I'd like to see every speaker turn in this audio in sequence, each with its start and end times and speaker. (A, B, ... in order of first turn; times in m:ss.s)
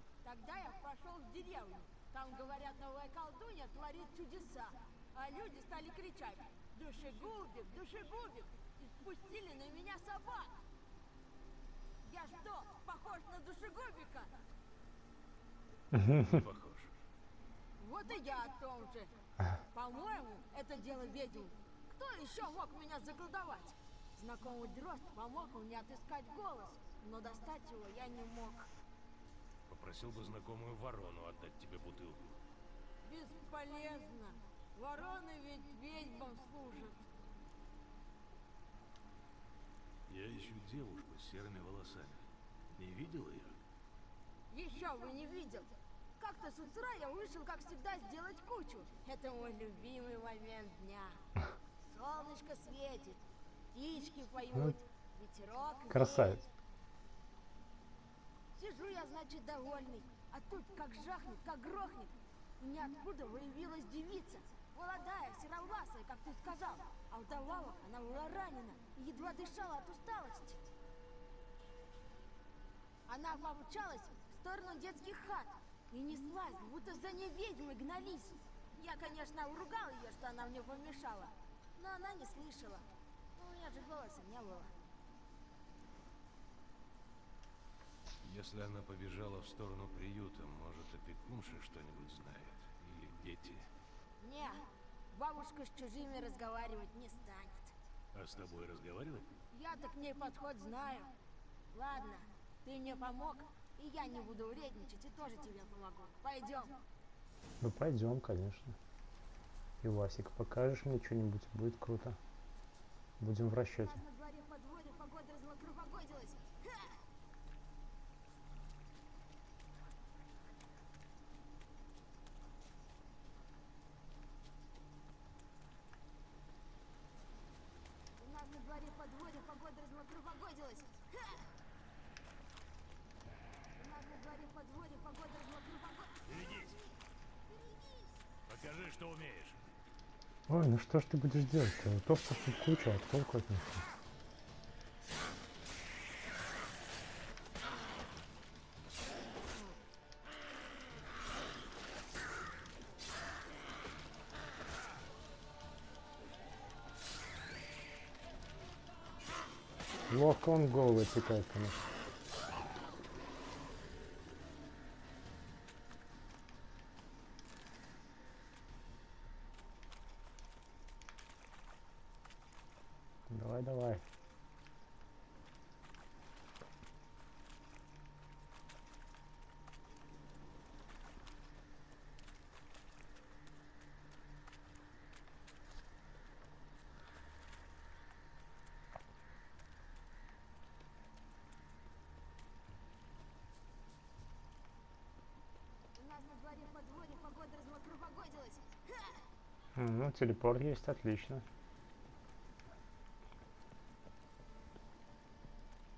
0:00.2-0:10.6 A
0:12.0-0:14.3 A
0:15.9-0:16.4 B
0:16.0-0:16.9 C
0:17.8-0:19.1 A
0:19.7-0:28.7 A
0:29.7-0:32.4 C
0:33.0-0:37.0 A
0:40.1-0:43.6 C
0:44.5-0:51.2 A
0:51.9-0:56.4 A
0:55.9-0:56.4 B
0:58.5-1:10.6 A
1:13.1-1:24.7 A
1:28.2-1:33.7 C
1:34.2-1:37.7 A
1:38.1-1:39.3 C
1:39.5-1:41.1 A
1:41.7-1:46.8 A
1:47.6-1:48.8 B
1:49.8-1:52.2 B
1:53.2-1:54.0 B
1:53.7-1:56.9 A
2:08.2-2:11.2 A
2:13.8-2:16.2 A
2:16.2-2:16.8 C
2:18.4-2:19.6 C
2:20.5-2:23.8 B
2:40.1-2:41.8 B
2:53.3-2:54.0 B
3:15.9-3:19.2 A
3:19.8-3:21.4 B